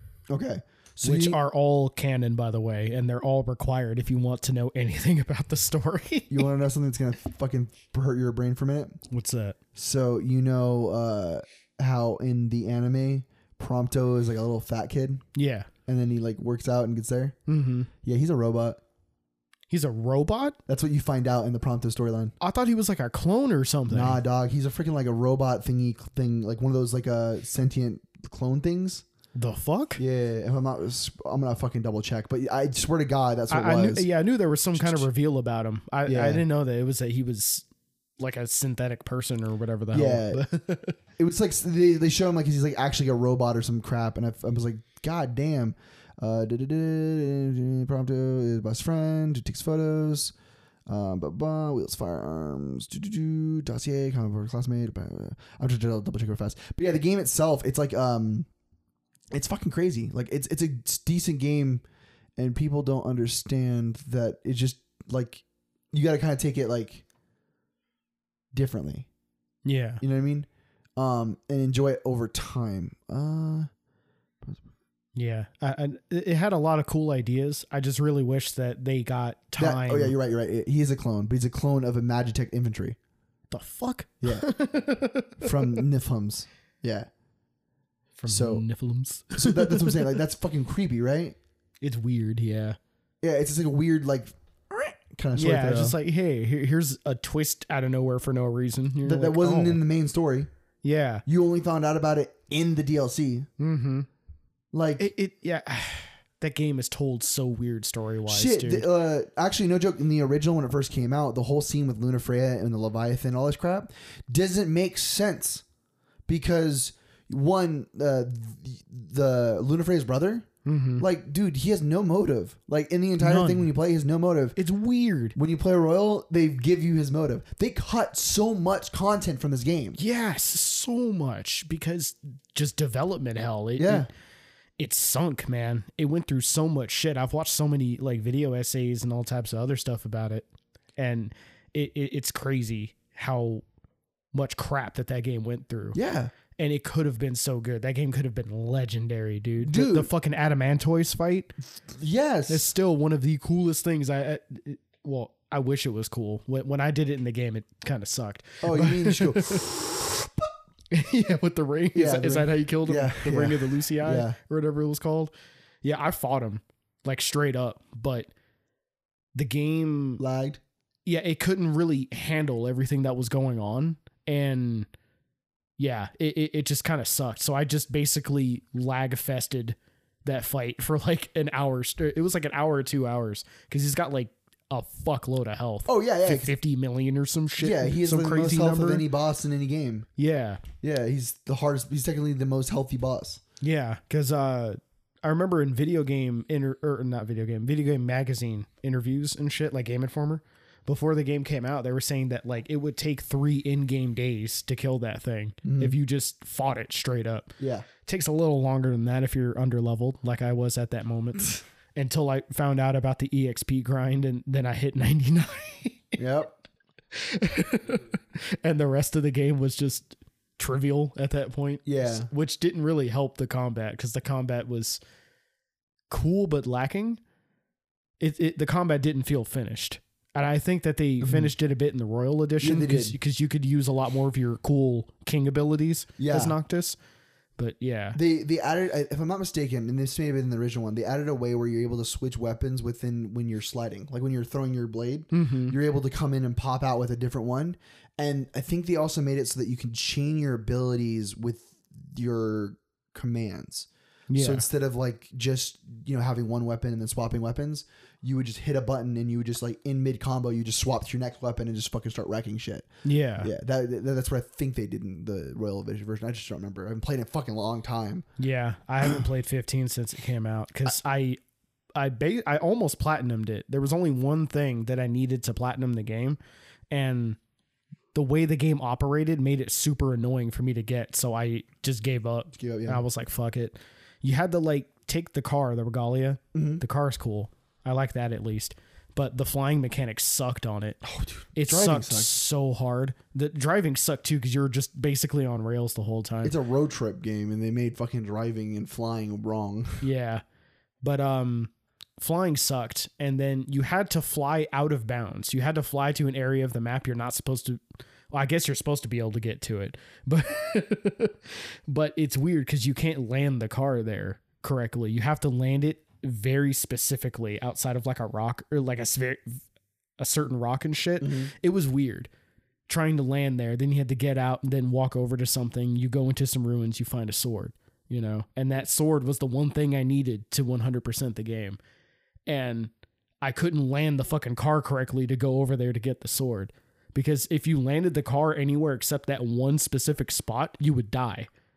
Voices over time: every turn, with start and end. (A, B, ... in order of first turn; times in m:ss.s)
0:00.3-0:01.4 A
0:01.0-0:06.5 B
0:06.3-0:09.0 A
0:09.1-0:09.6 B
0:09.8-0:15.2 A
0:15.4-0:15.7 B
0:15.9-0:17.4 A
0:17.5-0:17.9 B
0:18.0-0:18.8 A
0:19.7-0:20.6 B
0:20.7-0:22.4 A
0:22.4-0:24.2 B
0:23.9-0:29.0 A
0:29.4-0:30.0 B
0:30.0-0:34.1 A
0:33.5-0:37.6 B
0:34.7-0:35.1 A
0:36.1-0:36.4 A
0:38.2-0:41.0 B
0:39.9-0:40.4 A
0:41.2-0:50.3 A
0:50.9-0:58.5 A
0:59.3-1:01.8 A
1:02.4-1:07.0 A
1:08.5-1:09.1 A
1:09.6-1:10.0 B
1:10.0-1:13.7 A
1:15.2-1:20.2 B
1:19.6-1:23.0 A
1:23.5-1:25.8 B
1:24.2-1:24.5 A
1:25.4-1:27.1 A
1:28.2-1:30.2 B
1:28.3-1:28.6 A
1:29.4-1:31.4 A
1:31.8-1:32.8 B
1:33.2-1:36.0 A
1:35.4-1:39.8 B
1:39.0-1:40.5 A
1:40.8-1:41.2 B
1:41.3-1:43.5 A
1:43.6-1:44.1 B
1:44.7-1:45.1 A
1:45.0-1:48.9 B
1:48.3-1:55.6 A
1:56.3-2:00.5 A
2:00.6-2:01.1 B
2:01.0-2:04.6 A
2:03.2-2:03.7 B
2:04.6-2:05.4 B
2:05.4-2:10.0 A
2:10.0-2:14.1 B
2:13.8-2:14.1 A
2:14.8-2:23.6 B
2:24.3-2:26.0 B
2:25.9-2:26.3 A
2:26.6-2:31.5 B
2:29.6-2:30.1 A
2:31.9-2:32.7 A
2:32.5-2:40.3 B
2:38.6-2:39.8 A
2:40.9-2:48.3 B
2:41.9-2:44.4 A
2:49.4-2:50.2 B
2:50.2-2:50.6 A
2:51.1-2:54.9 B
2:55.8-3:09.1 B
3:05.9-3:06.6 A
3:07.6-3:10.1 A
3:10.2-3:10.6 B
3:10.8-3:13.4 A
3:13.6-3:36.2 B
3:25.6-3:26.0 A
3:27.6-3:27.9 A
3:36.2-3:36.6 A
3:37.1-3:45.0 B
3:41.9-3:42.3 A
3:46.1-3:47.2 B
3:48.2-3:57.0 B
3:51.2-3:51.5 A
3:52.6-3:53.2 A
3:56.2-3:56.6 A
3:57.6-3:58.2 B
3:58.1-4:22.9 A
4:05.3-4:05.8 B
4:14.3-4:14.6 B
4:23.0-4:23.5 B
4:23.4-4:28.3 A
4:28.4-4:31.4 B
4:32.0-4:36.4 B
4:36.9-4:37.4 B
4:38.1-4:51.0 B
4:42.6-4:43.0 A
4:46.5-4:46.8 A
4:51.0-4:52.3 A
4:51.6-4:56.5 B
4:56.4-5:00.0 A
5:00.0-5:00.4 B
5:01.0-5:19.6 B
5:20.2-5:22.3 B
5:21.2-5:21.5 A
5:22.9-5:31.8 B
5:32.5-5:32.9 B
5:33.4-5:41.5 B